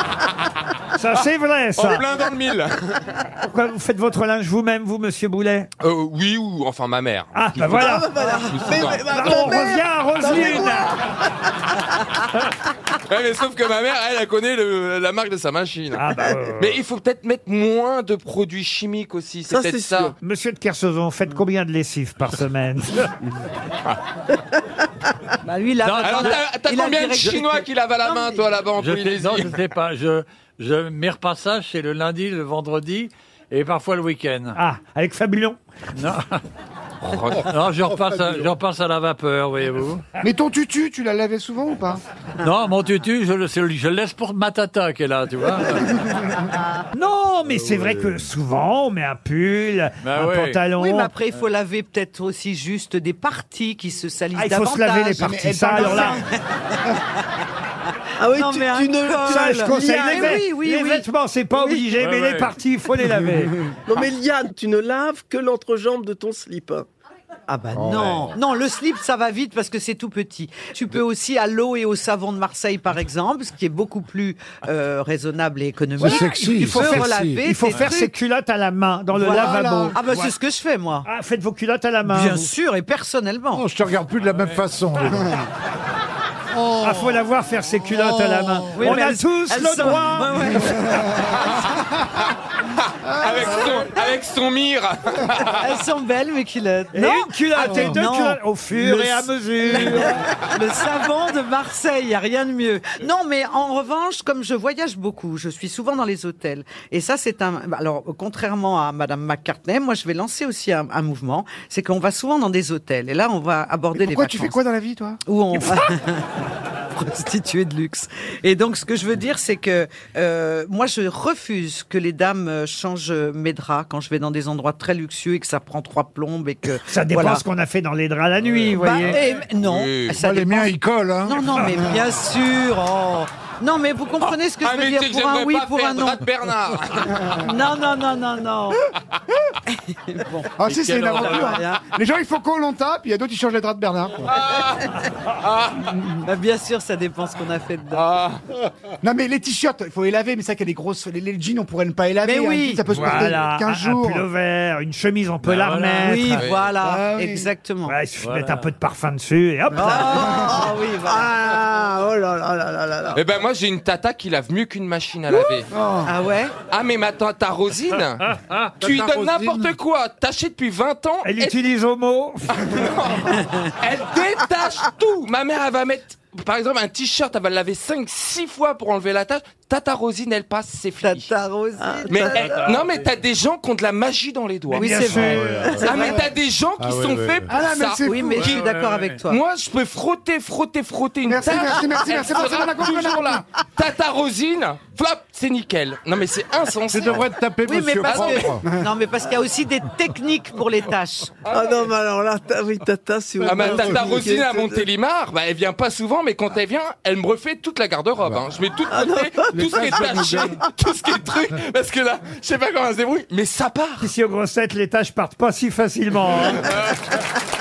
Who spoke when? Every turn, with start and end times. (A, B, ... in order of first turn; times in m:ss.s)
0:01.0-0:02.1 A
0:01.8-0:03.2 B
0:03.4-0:05.7 A
0:05.8-0:09.4 B
0:07.3-0:08.1 A
0:07.7-0:11.0 C
0:08.2-0:08.7 D
0:08.8-0:10.9 A
0:13.1-0:16.1 B
0:15.9-0:16.8 A
0:16.6-0:20.1 B
0:19.5-0:20.2 C
0:20.2-0:23.1 A
0:25.4-0:28.6 D
0:25.8-0:26.4 E
0:26.0-0:29.6 B
0:28.8-0:34.6 E
0:34.6-0:35.6 A
0:36.0-0:36.4 E
0:37.1-0:37.5 B
0:37.4-0:38.5 F
0:37.5-0:40.0 E
0:40.2-0:42.0 G
0:42.4-0:46.3 E
0:46.9-0:51.1 A
0:47.5-0:48.1 F
0:50.0-0:50.6 E
0:50.8-0:56.8 D
0:54.4-0:56.2 A
0:55.2-0:56.2 G
0:58.2-1:00.4 C
0:58.2-1:01.8 D
0:59.2-1:03.6 A
1:02.0-1:02.6 E
1:03.9-1:06.9 C
1:07.5-1:18.1 D
1:07.7-1:08.4 F
1:16.0-1:18.0 F
1:16.0-1:20.4 A
1:19.2-1:21.1 D
1:19.2-1:20.0 G
1:21.0-1:22.5 A
1:22.1-1:23.6 D
1:23.5-1:25.4 F
1:26.5-1:27.2 F
1:26.8-1:30.8 A
1:27.9-1:29.0 F
1:28.8-1:31.4 D
1:30.6-1:31.4 G
1:31.2-1:31.7 B
1:33.0-1:35.7 B
1:35.5-1:54.6 D
1:36.9-1:40.2 A
1:53.9-1:55.2 G
1:55.3-1:56.4 D
1:57.0-2:07.4 D
2:06.9-2:09.2 A
2:08.7-2:10.7 D
2:09.2-2:10.2 B
2:10.1-2:11.7 F
2:11.2-2:16.2 D
2:14.2-2:17.4 B
2:17.4-2:18.8 D
2:19.7-2:20.5 D
2:20.6-2:24.3 G
2:20.6-2:21.6 E
2:21.1-2:21.8 D
2:24.2-2:26.0 B
2:26.2-2:28.1 D
2:27.9-2:28.4 B
2:29.0-2:34.3 G
2:32.2-2:32.9 D
2:32.9-2:36.4 A
2:35.4-2:36.4 E
2:36.0-2:38.0 D
2:36.4-2:36.6 B
2:36.8-2:37.5 G
2:37.9-2:40.3 A
2:38.2-2:38.7 E
2:39.7-2:43.2 G
2:39.8-2:41.4 D
2:43.1-2:45.7 B
2:45.7-2:46.1 G
2:46.1-2:46.5 D
2:46.7-2:48.2 B
2:48.2-2:48.8 E
2:48.8-2:49.7 F
2:48.8-2:51.6 B
2:51.2-2:52.8 A
2:52.6-3:01.3 B
3:01.0-3:02.7 D
3:02.1-3:02.5 C
3:02.1-3:05.0 B
3:02.4-3:03.1 E
3:04.7-3:06.3 D
3:04.8-3:05.6 A
3:04.9-3:06.1 F
3:05.8-3:08.6 B
3:06.8-3:07.5 F
3:07.5-3:08.6 G
3:08.0-3:09.4 D
3:08.4-3:09.2 E
3:09.3-3:17.3 B
3:11.3-3:13.4 G
3:16.9-3:18.7 F
3:17.7-3:21.4 D
3:18.0-3:18.5 B
3:18.6-3:18.9 G
3:21.5-3:24.9 C
3:23.4-3:24.1 F
3:23.4-3:34.1 B
3:28.9-3:30.4 C
3:29.6-3:30.4 F
3:29.9-3:30.5 G
3:34.0-3:36.7 A
3:36.6-3:37.0 B